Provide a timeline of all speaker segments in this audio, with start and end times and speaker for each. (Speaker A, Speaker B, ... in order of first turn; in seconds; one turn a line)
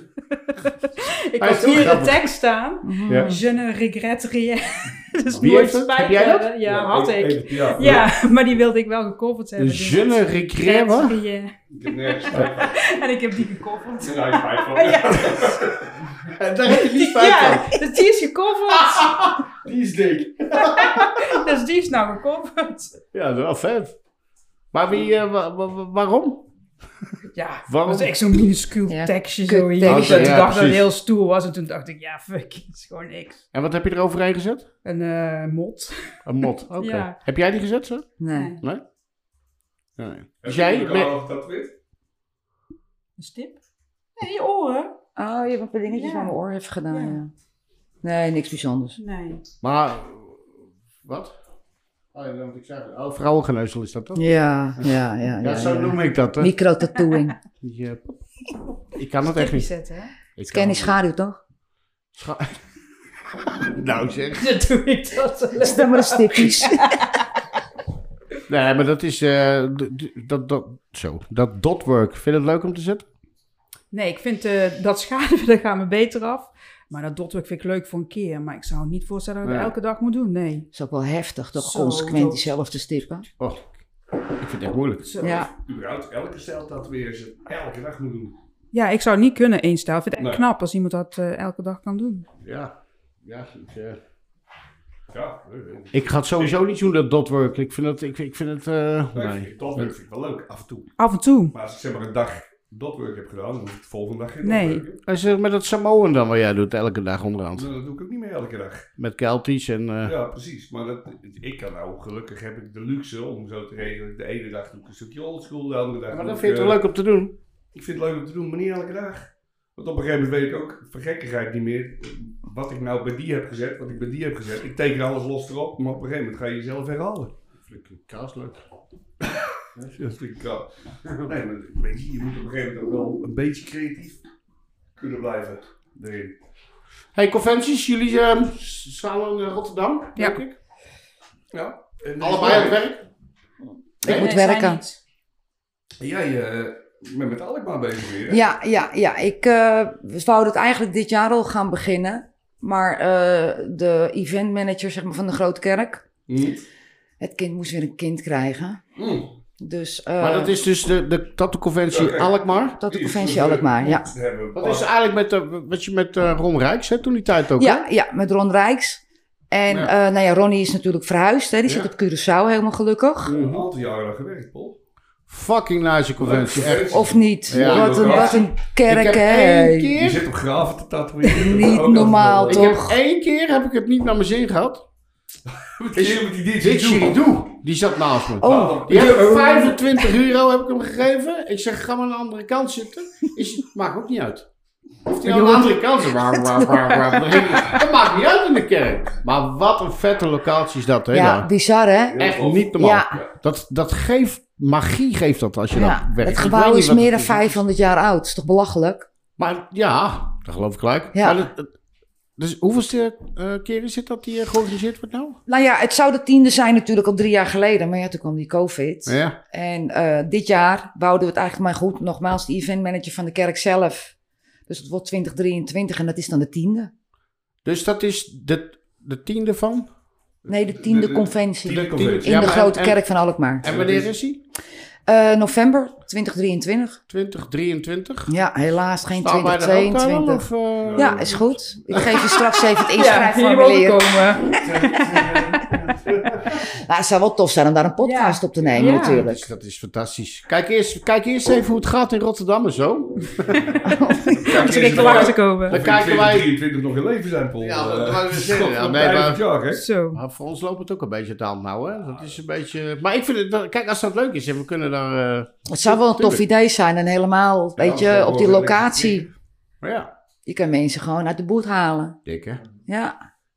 Speaker A: 0.4-15.7
Speaker B: 1.4-2.3
Speaker C: 2.8-3.4
Speaker B: 5.2-6.5
Speaker D: 6.6-8.1
Speaker B: 9.6-11.2
Speaker D: 11.7-12.8
Speaker D: 14.0-16.1
Speaker B: 16.1-17.9
Speaker A: 16.6-19.3
Speaker B: 18.7-21.4
Speaker A: 20.6-23.0
Speaker B: 23.1-23.9
Speaker B: 24.7-26.5
Speaker A: 27.3-33.4
Speaker B: 27.7-28.2
Speaker C: 28.9-30.4
Speaker B: 29.8-30.9
Speaker B: 33.5-34.7
Speaker A: 34.8-36.2
Speaker B: 36.2-38.8
Speaker A: 36.8-37.2
Speaker C: 38.2-38.5
Speaker A: 38.3-38.6
Speaker B: 40.0-41.1
Speaker D: 40.4-41.7
Speaker A: 43.2-43.6
Speaker A: 44.1-45.0
Speaker C: 45.1-47.3
Speaker A: 45.9-46.4
Speaker A: 46.9-47.2
Speaker C: 48.0-49.0
Speaker A: 49.0-49.4
Speaker B: 49.6-51.3
Speaker B: 52.1-54.2
Speaker C: 54.1-57.4
Speaker B: 54.8-56.5
Speaker B: 57.6-58.2
Speaker B: 58.9-59.7
Speaker A: 59.3-60.1
Speaker B: 60.4-60.9
Speaker C: 60.5-61.4
Speaker B: 62.1-62.6
Speaker B: 63.5-64.6
Speaker A: 64.4-67.2
Speaker C: 65.6-67.0
Speaker B: 68.5-73.0
Speaker A: 73.9-80.7
Speaker B: 79.4-79.7
Speaker C: 80.7-83.2
Speaker A: 81.6-82.5
Speaker B: 83.4-83.7
Speaker B: 84.3-85.2
Speaker A: 85.1-85.5
Speaker C: 85.2-85.5
Speaker D: 85.6-88.3
Speaker A: 88.7-92.3
Speaker D: 90.2-90.4
Speaker B: 92.4-94.0
Speaker D: 95.1-96.5
Speaker B: 95.9-99.9
Speaker D: 99.1-100.9
Speaker A: 101.0-101.5
Speaker D: 101.5-105.0
Speaker A: 104.4-104.8
Speaker B: 105.0-107.7
Speaker D: 107.5-108.9
Speaker B: 109.0-110.1
Speaker D: 110.0-116.8
Speaker B: 116.1-117.3
Speaker D: 117.7-127.3
Speaker B: 127.6-128.6
Speaker D: 129.2-134.2
Speaker D: 135.0-136.3
Speaker B: 137.1-140.6
Speaker D: 141.5-142.8
Speaker B: 142.2-143.0
Speaker C: 144.0-144.8
Speaker B: 144.0-144.3
Speaker A: 144.0-145.0
Speaker D: 146.0-148.4
Speaker C: 148.3-156.0
Speaker D: 156.3-156.6
Speaker C: 157.2-158.8
Speaker D: 158.9-159.3
Speaker C: 159.6-160.5
Speaker B: 160.2-162.8
Speaker D: 161.9-164.9
Speaker C: 162.8-164.1
Speaker B: 164.5-167.9
Speaker C: 167.6-173.3
Speaker B: 171.7-171.9
Speaker B: 173.3-173.7
Speaker D: 173.3-174.8
Speaker B: 175.3-180.2
Speaker D: 176.2-178.5
Speaker C: 176.9-179.9
Speaker D: 179.9-182.7
Speaker C: 181.3-183.0
Speaker B: 182.4-184.8
Speaker D: 185.5-187.2
Speaker B: 185.9-194.5
Speaker C: 188.4-189.2
Speaker D: 188.4-189.8
Speaker B: 195.0-201.5
Speaker C: 195.2-195.7
Speaker C: 201.1-203.2
Speaker D: 202.1-203.3
Speaker B: 202.2-207.6
Speaker C: 205.7-209.1
Speaker B: 209.4-211.7
Speaker C: 211.1-211.4
Speaker B: 212.4-215.4
Speaker C: 215.5-224.1
Speaker B: 219.1-219.4
Speaker C: 224.7-226.9
Speaker B: 227.6-229.9
Speaker D: 230.4-232.6
Speaker C: 230.5-233.6
Speaker B: 232.2-233.0
Speaker B: 233.6-234.4
Speaker D: 233.6-234.1
Speaker C: 235.1-237.0
Speaker B: 237.1-238.3
Speaker C: 238.3-244.6
Speaker B: 239.2-241.2
Speaker D: 240.8-241.6
Speaker A: 242.1-245.4
Speaker D: 244.5-246.6
Speaker C: 246.5-249.5
Speaker A: 248.0-249.2
Speaker B: 248.8-253.7
Speaker A: 253.6-255.8
Speaker C: 253.9-254.4
Speaker D: 254.3-259.8
Speaker B: 254.4-256.5
Speaker B: 257.6-259.4
Speaker A: 259.7-260.2
Speaker B: 260.1-266.4
Speaker C: 265.7-269.3
Speaker D: 267.8-269.3
Speaker B: 269.8-270.1
Speaker C: 270.4-272.2
Speaker B: 272.2-272.6
Speaker C: 272.9-273.1